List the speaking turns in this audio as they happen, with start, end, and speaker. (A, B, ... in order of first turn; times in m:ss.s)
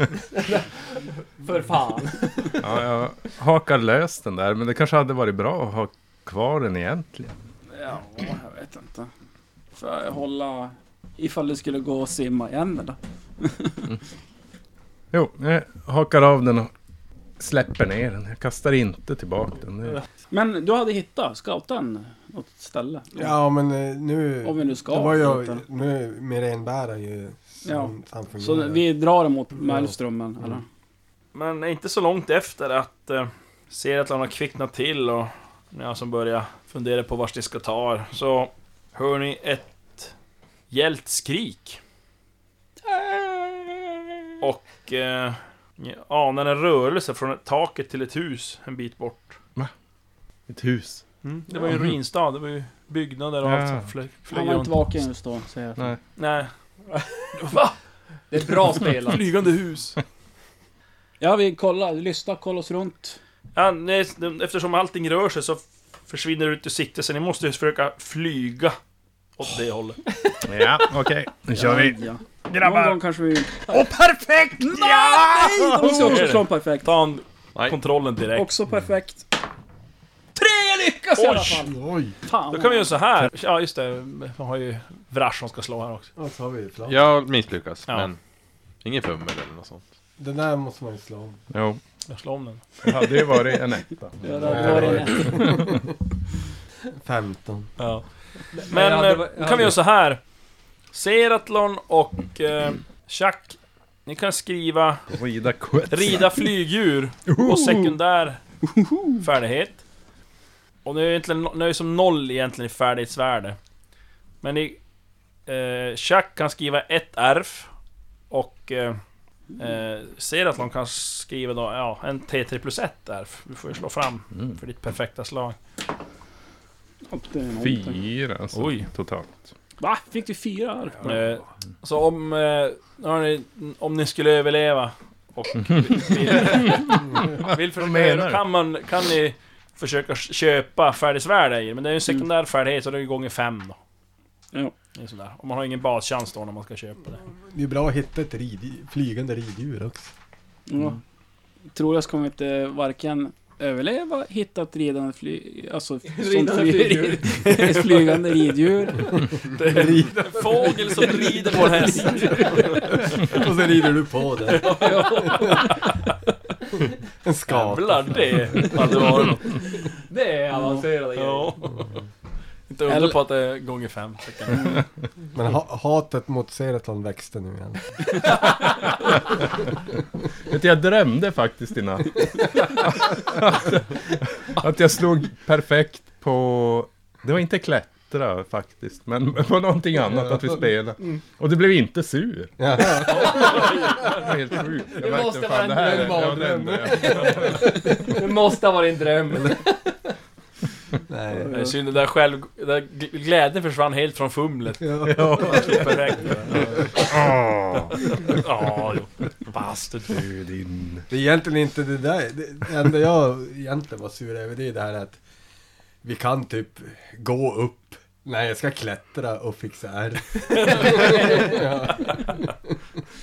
0:00.3-0:02.6 A
0:02.6-0:07.4 B
0:07.7-0:09.1 C
0:09.7-0:14.0 C
0:15.1-0:16.7 B
0:17.4-0:20.0 B
0:20.3-0:23.3 C
0:23.1-0:28.8 D
0:24.4-0:25.6 C
0:27.6-0:30.6 C
0:29.6-0:29.9 D
0:31.3-0:40.1 E
0:40.7-0:41.8 E
0:42.9-0:44.0 C
0:44.4-0:49.4 E
0:50.5-0:51.9 B
0:51.2-0:54.8 E
0:53.4-0:53.9 B
0:54.3-0:55.9 C
0:56.2-0:56.5 E
0:57.0-0:57.2 A
0:57.4-0:57.7 E
0:58.3-0:59.3 A
0:59.0-1:00.0 E
1:01.2-1:03.2 C
1:03.6-1:08.8 E
1:09.4-1:10.0 E
1:10.4-1:13.0 B
1:11.5-1:13.9 C
1:13.6-1:16.2 B
1:14.6-1:16.9 C
1:15.8-1:18.5 E
1:18.3-1:19.3 C
1:20.4-1:23.0 C
1:21.1-1:21.6 E
1:21.6-1:22.1 D
1:22.5-1:26.1 E
1:26.2-1:27.1 D
1:26.9-1:28.2 F
1:28.8-1:29.8 F
1:30.2-1:31.4 D
1:31.5-1:31.8 B
1:32.1-1:32.6 E
1:32.8-1:35.7 B
1:34.2-1:35.6 C
1:34.4-1:35.9 D
1:37.0-1:37.7 D
1:37.8-1:40.2 E
1:38.5-1:39.8 A
1:40.9-1:45.1 E
1:45.1-1:46.4 B
1:45.9-1:48.4 E
1:47.3-1:47.9 B
1:49.2-1:49.8 E
1:50.8-1:53.6 E
1:54.4-1:54.8 E
1:55.5-1:57.7 E
1:58.3-1:59.0 E
1:59.6-2:05.6 E
2:07.1-2:08.0 C
2:07.6-2:09.5 B
2:08.5-2:08.9 E
2:09.8-2:11.2 C
2:11.0-2:23.8 E
2:16.4-2:18.4 B
2:25.0-2:27.2 E
2:27.5-2:30.1 D
2:30.7-2:31.0 C
2:31.7-2:39.2 C
2:36.1-2:38.2 A
2:39.5-2:43.4 E
2:39.6-2:40.4 D
2:42.7-2:45.6 D
2:44.5-2:46.1 E
2:44.6-2:45.7 A
2:47.2-2:48.8 D
2:47.5-2:49.6 E
2:50.1-2:51.6 A
2:51.2-2:51.9 E
2:52.7-2:54.7 E
2:52.9-2:53.2 C
2:55.3-2:58.2 D
3:00.5-3:17.7 B
3:12.6-3:13.7 D
3:13.1-3:14.3 E
3:14.9-3:19.7 A
3:16.0-3:17.7 D
3:21.1-3:21.6 D
3:21.5-3:27.1 E
3:24.8-3:25.8 D
3:25.1-3:28.0 B
3:28.0-3:30.2 E
3:30.1-3:31.1 B
3:31.1-3:35.2 D
3:36.0-3:42.7 D
3:40.5-3:41.3 E